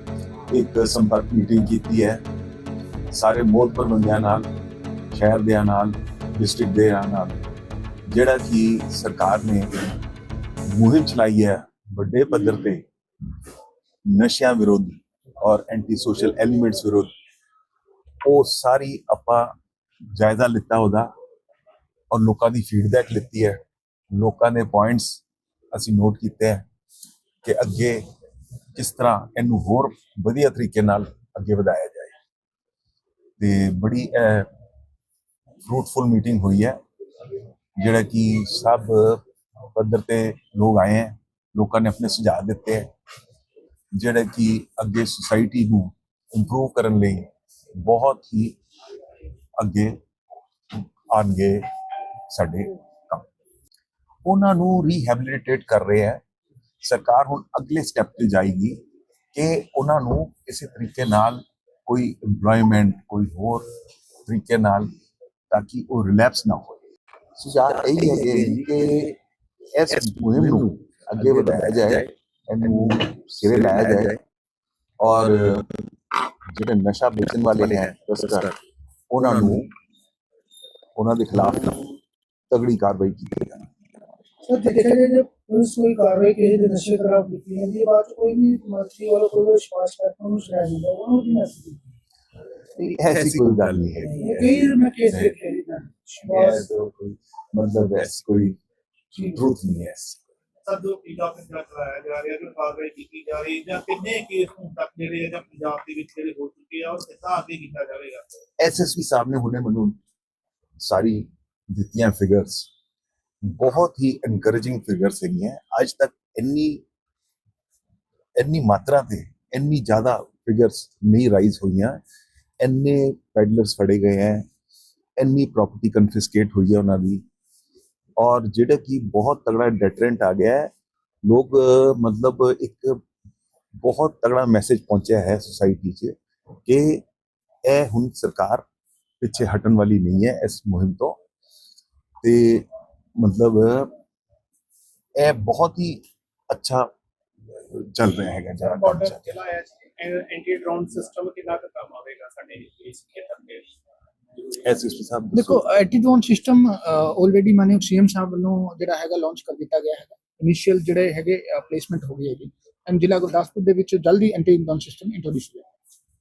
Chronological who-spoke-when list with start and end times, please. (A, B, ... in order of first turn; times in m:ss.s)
0:00.5-0:02.2 A
0:03.1-0:04.5 A
0:05.1-0:07.4 A
0:08.1-0:09.7 A
0:10.7-0:12.8 A
0:14.0-0:17.1 A
0:18.2-0:19.5 A
0:20.1-0:21.1 A
0:22.1-0:23.6 A
0:24.1-0:25.2 A
0:25.7-0:26.6 A
0:27.4-0:28.0 A
0:28.8-0:32.1 A
0:33.4-0:34.5 A
0:35.6-0:36.8 A
0:37.8-0:39.2 A
0:39.7-0:42.9 A
0:43.9-0:48.6 A
0:49.6-0:50.0 A
0:50.7-0:51.7 A
0:52.3-0:53.3 A
0:54.2-0:56.2 A
0:56.8-0:58.8 A
0:59.3-1:03.7 A
1:04.3-1:04.9 A
1:05.5-1:06.8 A
1:07.4-1:09.2 A
1:09.7-1:14.2 A
1:15.0-1:15.6 A
1:16.5-1:18.6 A
1:19.1-1:19.7 A
1:21.0-1:21.9 A
1:22.5-1:23.7 A
1:24.4-1:31.8 B
1:32.8-1:35.3 A
1:34.0-1:36.6 B
1:36.3-1:38.6 A
1:39.2-1:40.2 A
1:40.6-1:48.4 C
1:48.6-1:50.0 A
1:50.8-1:52.7 A
1:53.4-1:56.8 A
1:58.4-2:02.0 A
2:02.6-2:04.5 A
2:05.2-2:07.2 A
2:08.2-2:10.7 A
2:11.2-2:13.0 A
2:13.8-2:17.0 A
2:17.6-2:18.6 A
2:19.2-2:21.2 A
2:22.2-2:23.9 A
2:25.2-2:26.9 A
2:27.6-2:29.2 A
2:28.6-2:33.7 C
2:34.5-2:35.6 A
2:35.3-2:45.7 D